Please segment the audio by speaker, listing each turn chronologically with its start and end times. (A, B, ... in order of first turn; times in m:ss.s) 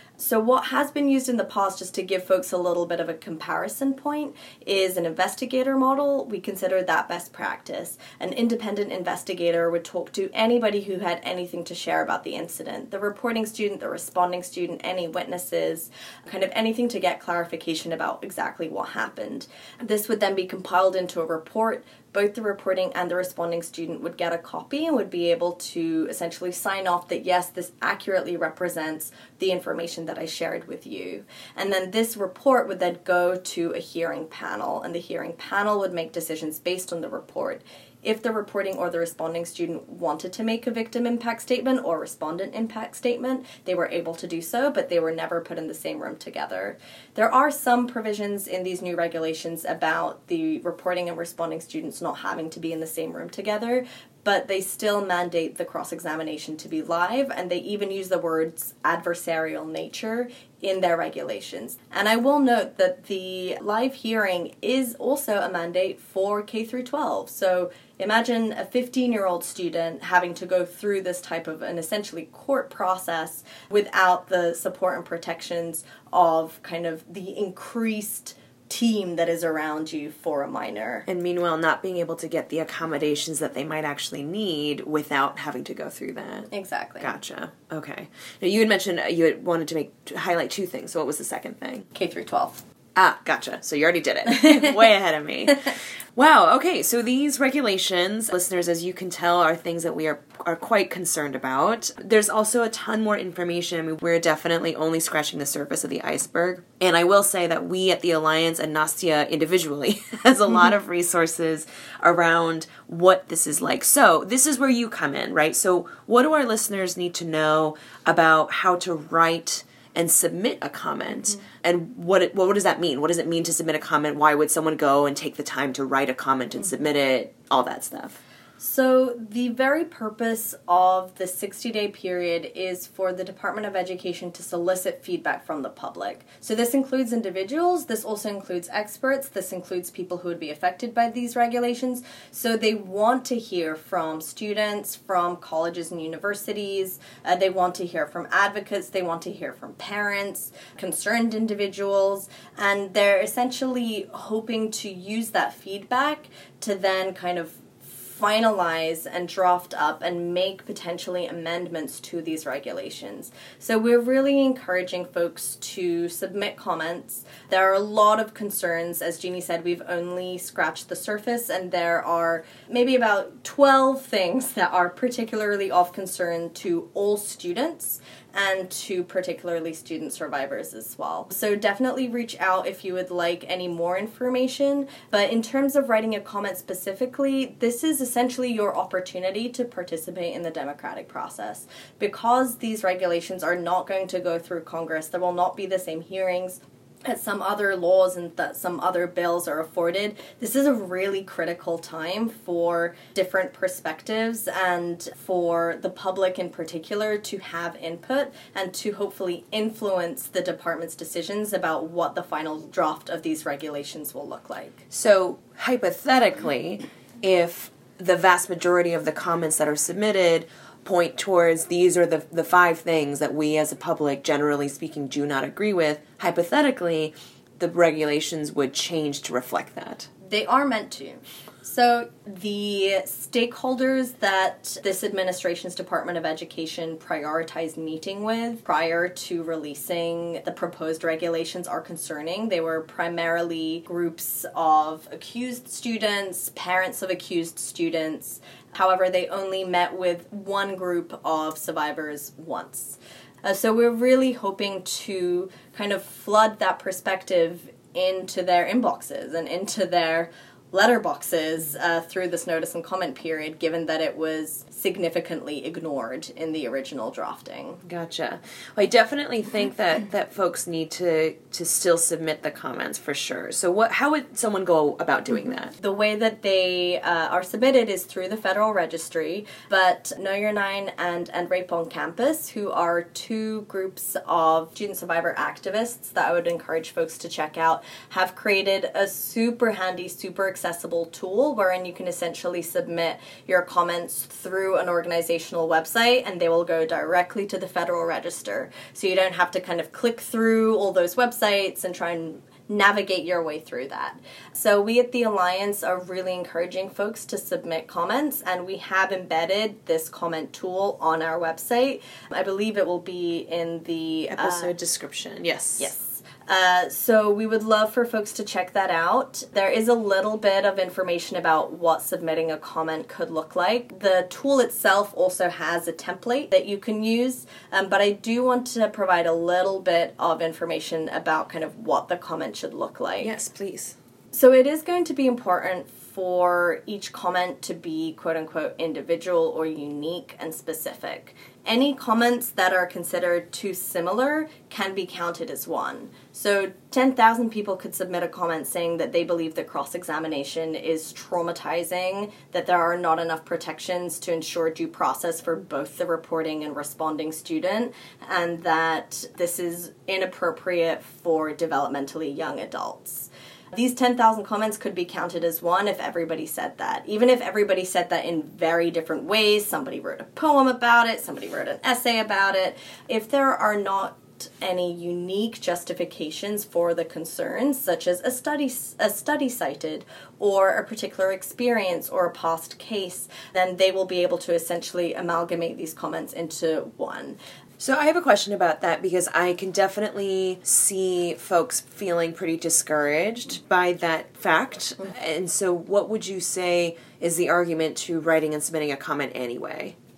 0:00.2-1:21.0 A
1:21.1-1:26.5 B
1:26.5-1:27.1 A
1:27.0-1:31.8 B
1:31.9-1:32.6 A
1:33.0-2:08.2 B
2:08.6-3:34.8 A
3:34.9-3:50.1 B
3:50.2-4:27.8 A
4:27.8-4:35.7 B
4:35.8-5:14.7 A
5:14.3-5:15.9 B
5:15.8-5:33.3 A
5:33.2-5:34.0 B
5:34.3-6:27.4 A
6:27.8-6:40.0 B